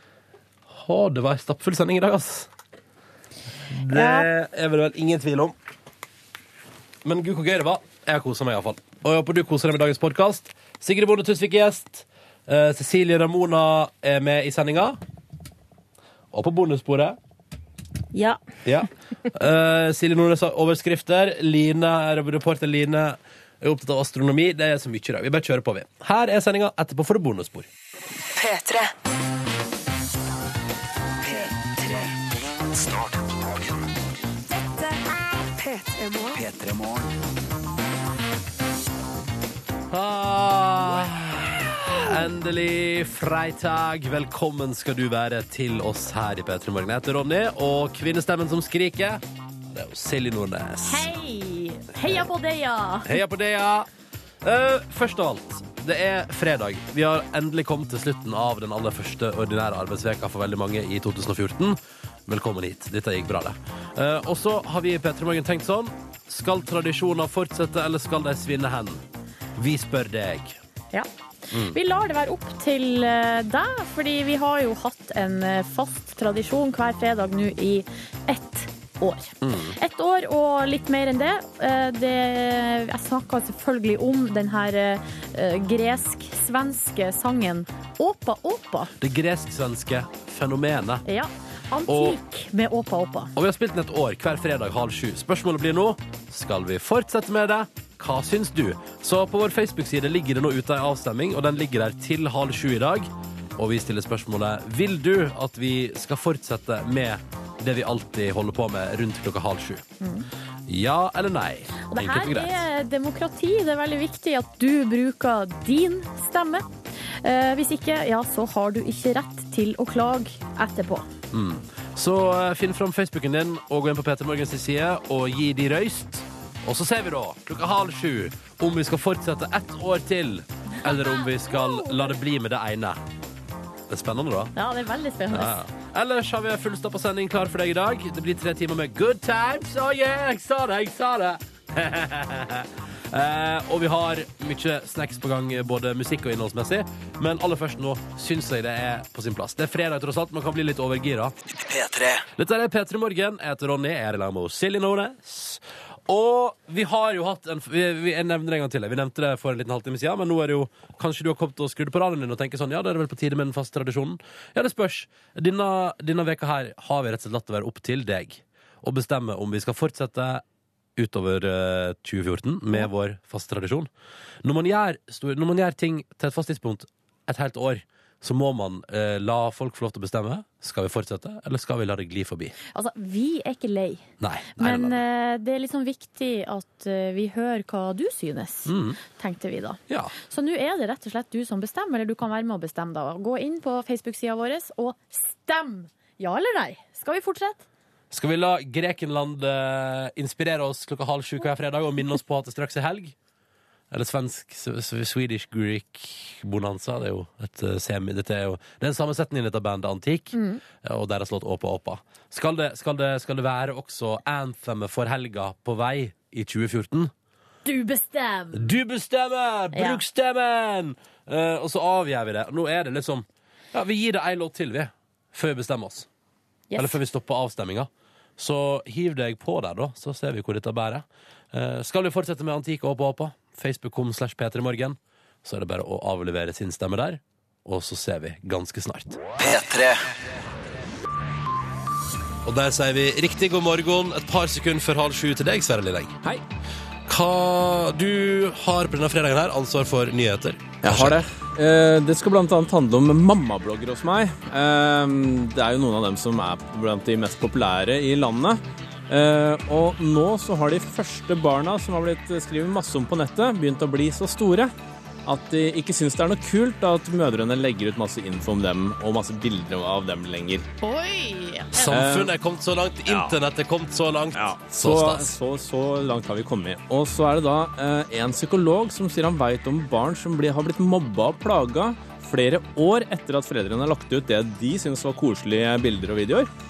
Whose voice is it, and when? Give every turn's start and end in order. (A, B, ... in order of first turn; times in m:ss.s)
0:00.7-0:02.5 A
0:03.8-0:05.5 A
0:03.9-0:04.3 B
0:07.0-0:15.0 A
0:16.3-0:17.2 A
0:18.6-0:27.7 A
0:28.4-0:28.9 C
0:31.2-0:32.0 C
0:32.8-0:33.8 D
0:34.6-0:36.4 C
0:36.4-0:37.1 D
0:39.9-0:51.1 A
0:50.8-0:53.2 B
0:53.0-0:53.9 A
0:54.4-1:09.0 A
1:09.6-1:10.6 A
1:11.7-1:28.9 B
1:19.4-1:19.7 A
1:29.0-1:31.0 A
1:31.0-1:33.3 B
1:31.9-1:32.2 A
1:33.4-1:49.8 A
1:50.0-1:50.3 B
1:50.7-1:52.6 A
1:51.9-1:56.6 B
1:57.2-2:01.1 B
2:01.3-2:13.0 A
2:10.8-2:12.1 B
2:13.9-2:14.5 A
2:14.6-2:15.5 B
2:15.3-2:31.3 A
2:31.6-2:32.2 D
2:32.4-2:50.4 A
2:51.0-2:53.9 A
2:54.4-3:02.5 A
3:02.7-3:17.6 B
3:04.2-3:05.0 A
3:08.7-3:09.0 A
3:18.1-3:23.1 A
3:23.9-3:37.1 A
3:30.3-3:30.6 B
3:37.6-3:38.7 B
3:38.5-3:46.1 A
3:39.7-3:40.0 B
3:46.7-3:47.0 B
3:46.8-3:59.2 A
3:59.4-4:00.0 D
4:02.4-4:06.2 A
4:07.1-4:11.2 A
4:10.8-4:24.7 E
4:25.2-4:30.6 E
4:30.8-4:32.0 B
4:31.7-4:35.3 A
4:31.8-4:32.3 E
4:33.1-4:33.3 E
4:34.3-4:46.5 E